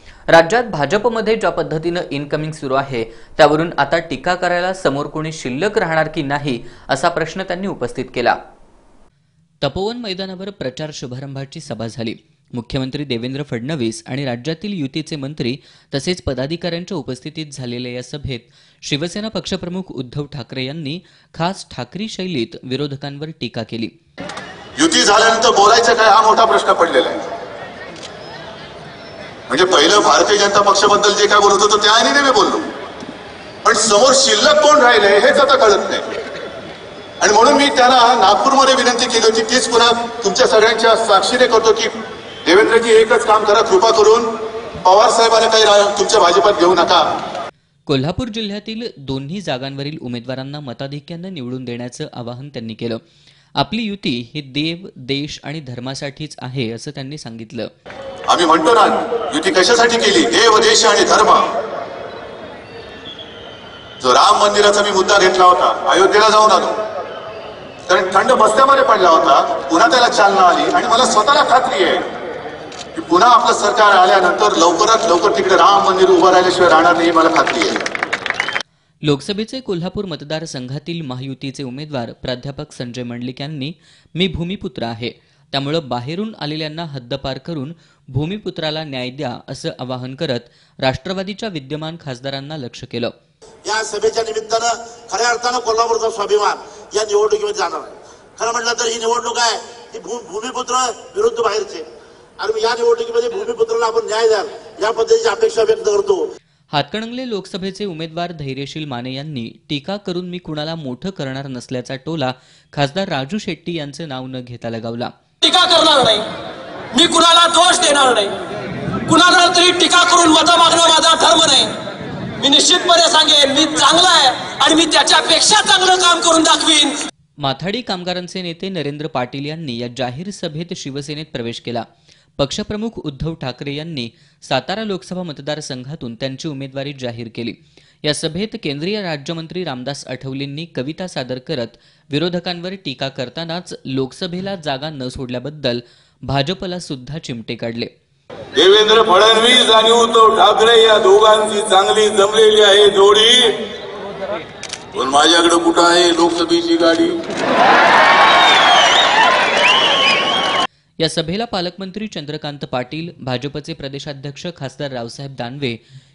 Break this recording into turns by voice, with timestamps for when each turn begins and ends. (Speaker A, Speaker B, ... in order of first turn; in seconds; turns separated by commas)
Speaker A: 0.3-8.4, Speaker A: 9.6-23.9, Speaker B: 24.8-27.3, Speaker B: 29.5-32.6, Speaker B: 33.6-36.0, Speaker B: 37.2-41.9, Speaker B: 42.5-44.3, Speaker B: 44.8-47.0, Speaker A: 47.9-53.0, Speaker A: 53.6-57.7, Speaker B: 58.3-61.4, Speaker B: 64.0-66.8, Speaker B: 67.9-72.0, Speaker B: 73.0-77.8, Speaker A: 79.0-93.1, Speaker C: 93.6-101.8, Speaker C: 102.4-106.2, Speaker A: 106.7-115.1, Speaker D: 115.4-116.2, Speaker D: 116.9-118.3, Speaker D: 119.1-121.7, Speaker D: 122.4-126.9, Speaker A: 127.4-131.8, Speaker A: 132.4-147.9, Speaker E: 148.5-153.6, Speaker E: 154.9-157.2, Speaker A: 161.0-165.8